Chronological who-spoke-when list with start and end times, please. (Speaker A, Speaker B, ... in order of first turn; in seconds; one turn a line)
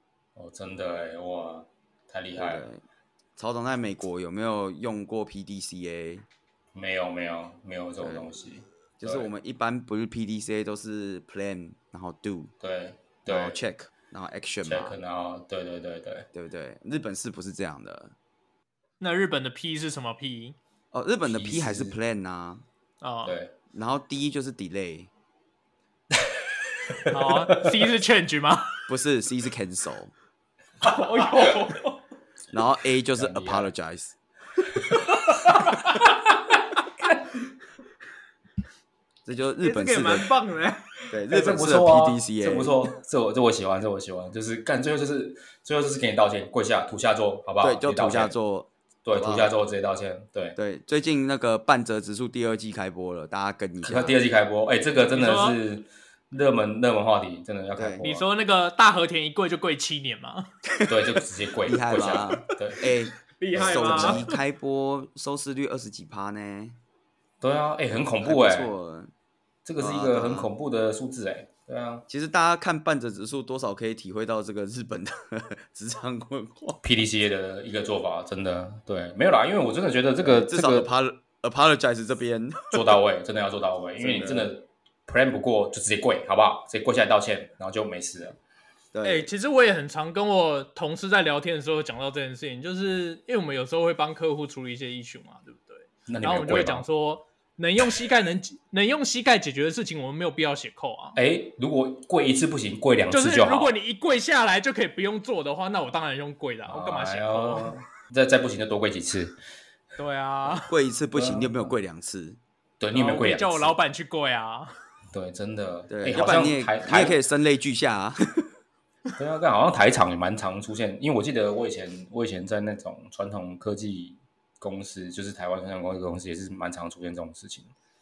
Speaker A: 0.3-2.7
Speaker B: 2.4-2.8
Speaker B: 3.4-6.2
Speaker A: 6.7-9.3
Speaker B: 8.0-8.3
Speaker B: 9.0-12.5
Speaker A: 12.6-13.6
Speaker B: 13.3-15.0
Speaker A: 14.6-16.2
Speaker B: 16.3-18.1
Speaker C: 19.0-20.6
Speaker B: 20.9-22.6
Speaker A: 21.3-21.9
Speaker C: 23.0-23.4
Speaker A: 23.2-23.5
Speaker B: 23.7-25.1
Speaker A: 27.1-27.6
Speaker C: 27.1-28.8
Speaker B: 28.9-30.1
Speaker C: 30.8-32.0
Speaker B: 32.5-34.1
Speaker A: 33.1-33.7
Speaker A: 34.9-36.1
Speaker B: 39.2-40.3
Speaker C: 39.6-40.9
Speaker B: 41.1-42.9
Speaker A: 41.3-48.3
Speaker B: 47.6-49.5
Speaker A: 49.0-50.5
Speaker B: 50.5-54.2
Speaker A: 53.8-58.3
Speaker C: 55.0-55.6
Speaker B: 57.8-58.0
Speaker C: 58.0-60.5
Speaker A: 60.9-62.8
Speaker B: 61.6-66.8
Speaker C: 63.4-64.3
Speaker A: 63.5-64.2
Speaker A: 67.4-68.7
Speaker B: 68.2-69.1
Speaker A: 69.6-72.0
Speaker B: 69.8-70.5
Speaker B: 72.1-76.8
Speaker A: 76.8-80.9
Speaker B: 80.2-83.0
Speaker A: 82.7-88.3
Speaker B: 84.0-84.5
Speaker B: 88.9-89.3
Speaker C: 89.0-101.2
Speaker A: 96.1-96.8
Speaker A: 101.2-103.7
Speaker C: 103.1-107.8
Speaker A: 106.7-109.4
Speaker C: 110.0-110.7
Speaker B: 110.4-112.4
Speaker A: 111.1-111.7
Speaker A: 112.8-113.7
Speaker C: 112.9-114.7
Speaker A: 115.1-117.2
Speaker B: 115.9-118.5
Speaker A: 119.2-127.7